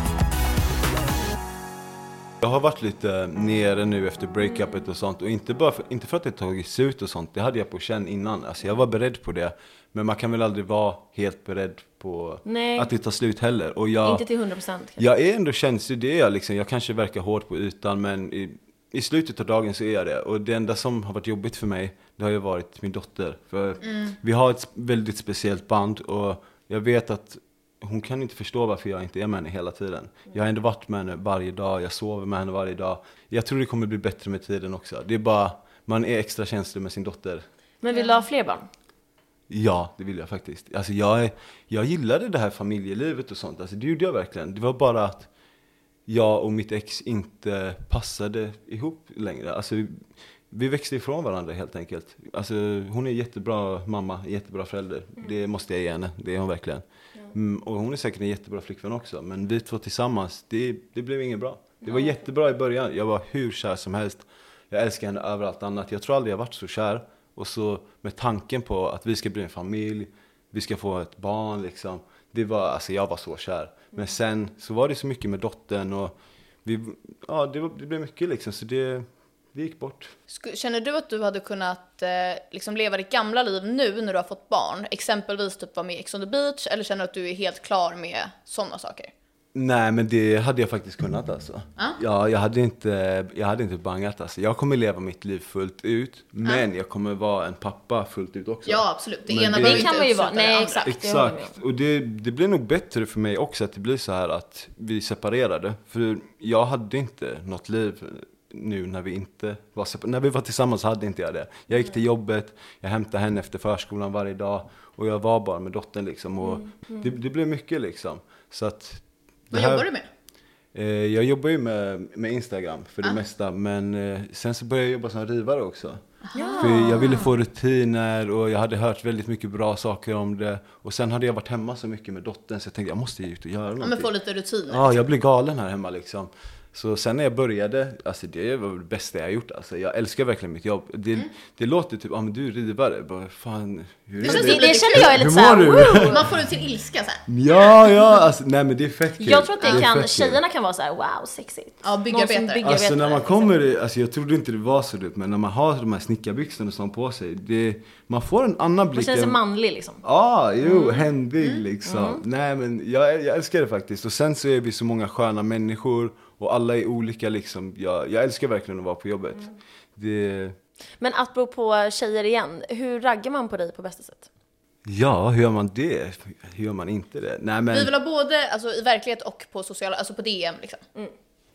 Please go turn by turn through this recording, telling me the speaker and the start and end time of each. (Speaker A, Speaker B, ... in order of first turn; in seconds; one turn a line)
Speaker A: 2.4-14.2
Speaker B: 12.5-12.9
Speaker B: 14.1-15.0
Speaker A: 15.0-37.5
Speaker C: 23.8-24.1
Speaker B: 37.8-38.7
Speaker C: 37.9-38.3
Speaker A: 39.5-45.3
Speaker A: 46.1-76.1
Speaker B: 61.8-62.2
Speaker A: 76.7-80.1
Speaker C: 80.3-89.1
Speaker A: 89.5-99.9
Speaker C: 98.7-100.9
Speaker B: 99.6-101.6
Speaker A: 100.9-119.9
Speaker B: 116.4-117.1
Speaker C: 119.5-120.1
Speaker A: 120.7-126.0
Speaker C: 126.2-127.3
Speaker B: 126.3-127.2
Speaker A: 126.6-134.1
Speaker C: 133.8-135.0
Speaker A: 134.7-146.2
Speaker C: 144.2-145.3
Speaker B: 144.2-146.3
Speaker C: 146.0-147.2
Speaker A: 147.3-150.4
Speaker B: 149.2-153.6
Speaker C: 151.8-152.7
Speaker A: 152.6-159.4
Speaker B: 158.9-160.0
Speaker A: 160.0-170.6
Speaker B: 160.6-161.1
Speaker C: 161.4-161.7
Speaker B: 161.8-162.2
Speaker B: 171.0-174.3
Speaker A: 174.9-177.9
Speaker C: 177.7-180.8